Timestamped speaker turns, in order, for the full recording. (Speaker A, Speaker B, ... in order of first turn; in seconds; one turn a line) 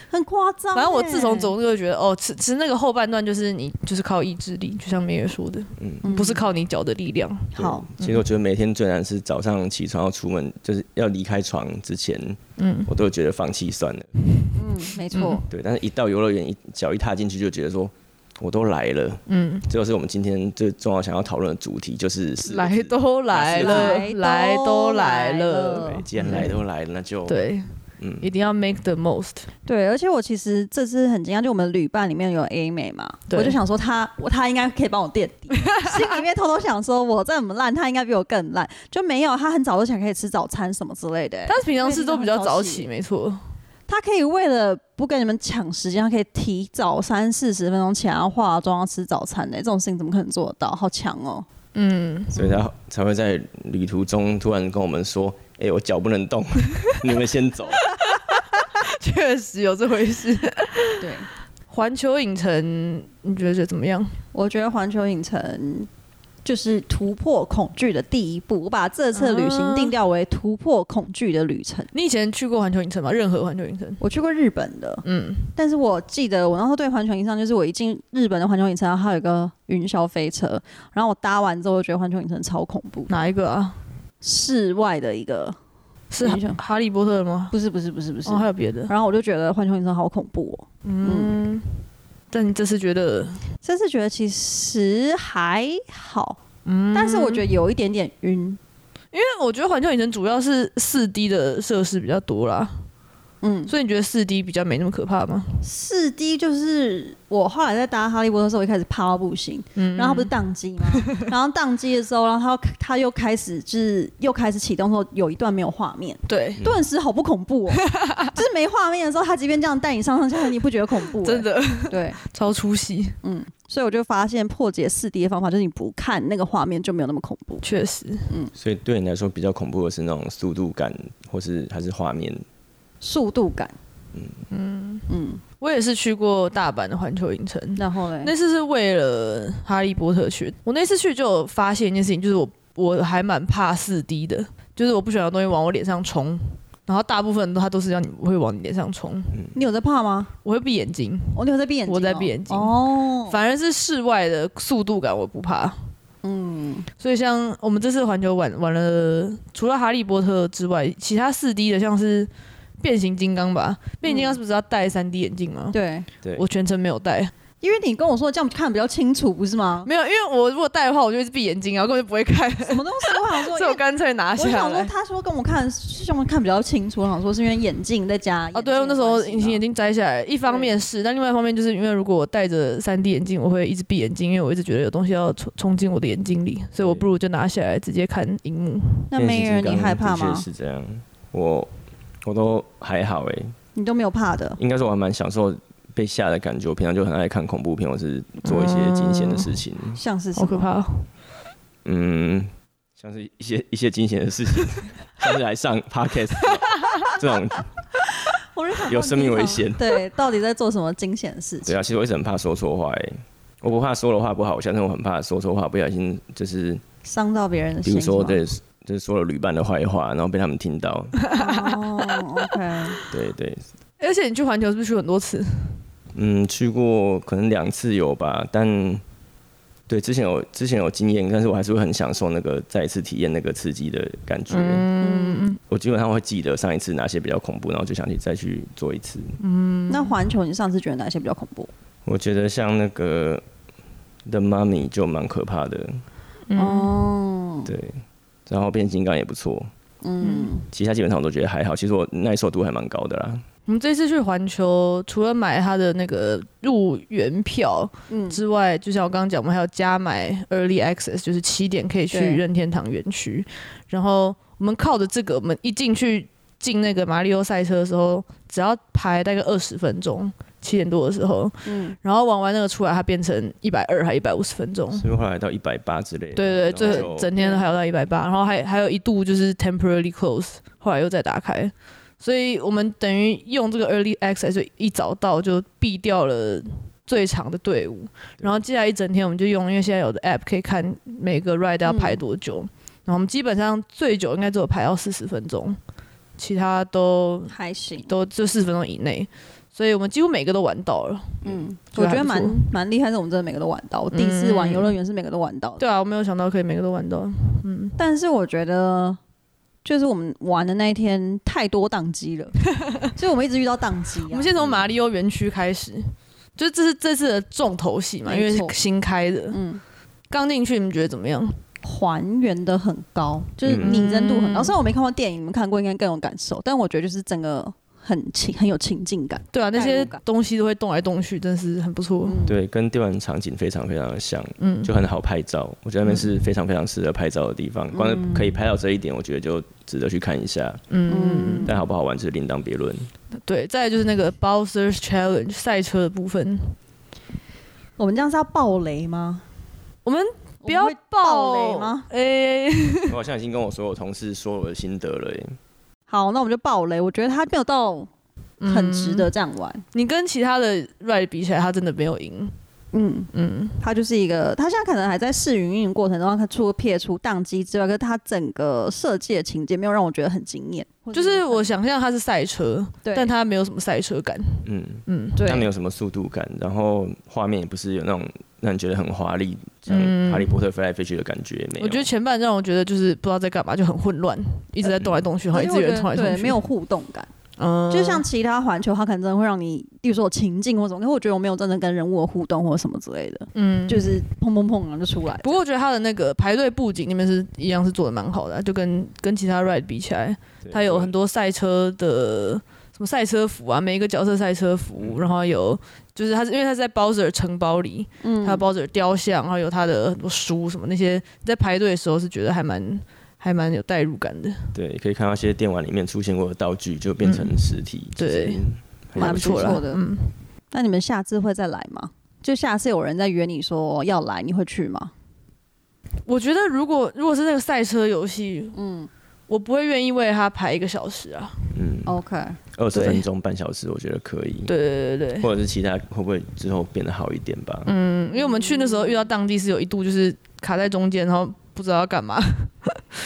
Speaker A: 0.1-1.5
Speaker B: 0.7-8.3
Speaker C: 5.8-6.0
Speaker A: 6.0-6.5
Speaker C: 7.6-14.1
Speaker A: 7.6-7.9
Speaker B: 12.6-12.9
Speaker A: 14.5-15.4
Speaker B: 15.1-15.4
Speaker C: 15.5-24.0
Speaker B: 19.3-19.7
Speaker B: 22.4-26.5
Speaker A: 23.6-26.5
Speaker C: 25.9-27.4
Speaker B: 27.3-27.7
Speaker C: 28.0-28.3
Speaker B: 28.2-29.5
Speaker A: 29.7-42.9
Speaker B: 33.3-33.6
Speaker B: 35.7-36.0
Speaker B: 41.5-43.4
Speaker A: 43.9-51.5
Speaker B: 51.8-52.3
Speaker A: 52.3-52.6
Speaker C: 52.4-57.9
Speaker B: 57.9-61.1
Speaker A: 61.0-61.3
Speaker B: 61.7-64.2
Speaker A: 64.3-65.9
Speaker A: 66.5-71.9
Speaker B: 69.2-69.9
Speaker B: 71.9-74.0
Speaker A: 74.0-83.2
Speaker B: 75.0-75.5
Speaker B: 83.1-83.8
Speaker A: 84.2-85.6
Speaker B: 86.1-87.5
Speaker A: 86.2-86.6
Speaker A: 87.5-91.3
Speaker B: 88.2-88.9
Speaker B: 90.8-93.4
Speaker A: 93.6-96.4
Speaker B: 96.7-97.5
Speaker A: 96.9-98.6
Speaker B: 99.1-102.9
Speaker A: 103.4-103.7
Speaker B: 103.7-105.6
Speaker A: 105.6-122.2
Speaker B: 109.8-110.3
Speaker B: 110.9-111.2
Speaker B: 116.3-116.6
Speaker B: 117.7-118.3
Speaker B: 121.2-123.2
Speaker A: 123.2-127.7
Speaker B: 127.6-128.3
Speaker C: 128.6-132.4
Speaker A: 133.0-133.8
Speaker C: 134.1-134.4
Speaker B: 134.5-135.1
Speaker A: 135.1-135.4
Speaker B: 135.6-149.4
Speaker A: 137.8-138.3
Speaker A: 149.6-150.3
Speaker B: 150.4-155.8
Speaker A: 151.3-153.4
Speaker A: 156.2-156.9
Speaker B: 157.0-165.8
Speaker A: 164.0-164.4
Speaker A: 165.7-166.1
Speaker B: 166.3-167.3
Speaker A: 167.6-169.9
Speaker B: 169.9-174.9
Speaker A: 172.6-173.8
Speaker A: 174.3-179.6
Speaker B: 178.5-189.1
Speaker A: 180.4-180.8
Speaker C: 186.8-187.1
Speaker A: 189.1-190.5
Speaker C: 189.1-191.7
Speaker C: 192.2-193.6
Speaker A: 193.8-194.6
Speaker C: 194.6-200.0
Speaker B: 198.4-199.6
Speaker A: 200.0-200.7
Speaker B: 200.4-201.1
Speaker C: 201.8-207.7
Speaker A: 208.3-211.8
Speaker C: 208.9-209.8
Speaker C: 211.7-216.8
Speaker A: 217.0-218.4
Speaker C: 217.8-221.2
Speaker B: 221.2-222.2
Speaker A: 221.3-223.0
Speaker C: 223.1-223.7
Speaker B: 224.0-225.8
Speaker C: 226.2-229.0
Speaker C: 229.9-234.9
Speaker B: 234.5-235.6
Speaker A: 235.0-235.6
Speaker C: 235.7-239.4
Speaker B: 239.4-240.2
Speaker A: 239.9-241.7
Speaker C: 242.1-243.4
Speaker C: 244.3-246.0
Speaker B: 246.5-247.1
Speaker A: 246.6-247.7
Speaker C: 247.7-249.7
Speaker A: 250.0-250.7
Speaker B: 250.2-250.5
Speaker C: 250.7-253.4
Speaker B: 253.7-275.1
Speaker A: 258.1-258.4
Speaker A: 262.1-262.4
Speaker A: 271.6-272.0
Speaker C: 274.9-277.3
Speaker B: 276.4-295.8
Speaker A: 276.8-277.6
Speaker A: 291.9-292.2
Speaker B: 296.4-297.5
Speaker A: 297.5-298.1
Speaker B: 298.1-302.7
Speaker A: 301.4-305.8
Speaker B: 304.1-304.9
Speaker B: 305.8-308.0
Speaker A: 308.0-309.2
Speaker A: 309.9-312.6
Speaker A: 313.1-314.5
Speaker B: 314.3-319.6
Speaker C: 314.6-314.8
Speaker A: 318.2-318.8
Speaker A: 319.5-319.8
Speaker B: 320.3-321.6
Speaker A: 321.8-330.2
Speaker C: 323.6-323.9
Speaker B: 323.8-324.8
Speaker B: 329.5-332.4
Speaker A: 332.2-332.6
Speaker C: 332.5-340.8
Speaker B: 334.6-334.9
Speaker B: 336.1-336.3
Speaker A: 337.9-338.5
Speaker B: 340.9-341.7
Speaker A: 341.1-341.7
Speaker C: 341.7-343.1
Speaker B: 343.4-346.8
Speaker A: 348.0-349.4
Speaker B: 350.1-353.2
Speaker A: 350.6-352.1
Speaker C: 353.1-355.6
Speaker A: 356.1-358.1
Speaker B: 358.6-359.3
Speaker A: 358.7-359.8
Speaker B: 359.9-362.6
Speaker A: 362.9-371.7
Speaker B: 363.3-363.8
Speaker B: 371.1-375.5
Speaker A: 373.0-373.3
Speaker C: 374.6-382.1
Speaker A: 375.4-375.7
Speaker B: 379.9-380.6
Speaker B: 381.8-386.6
Speaker C: 385.0-385.2
Speaker A: 385.5-387.3
Speaker B: 387.6-388.3
Speaker A: 387.9-395.6
Speaker B: 393.6-394.2
Speaker B: 395.4-414.7
Speaker C: 400.6-401.1
Speaker A: 408.2-408.6
Speaker C: 414.8-419.8
Speaker B: 417.2-418.6
Speaker B: 419.1-420.4
Speaker A: 419.2-420.0
Speaker A: 420.7-425.1
Speaker B: 426.3-428.8
Speaker A: 428.7-429.1
Speaker B: 429.5-431.7
Speaker C: 431.7-432.1
Speaker A: 432.1-432.6
Speaker C: 432.8-434.7
Speaker B: 432.9-433.3
Speaker B: 434.7-435.5
Speaker C: 435.4-437.9
Speaker B: 437.9-443.0
Speaker A: 438.4-439.3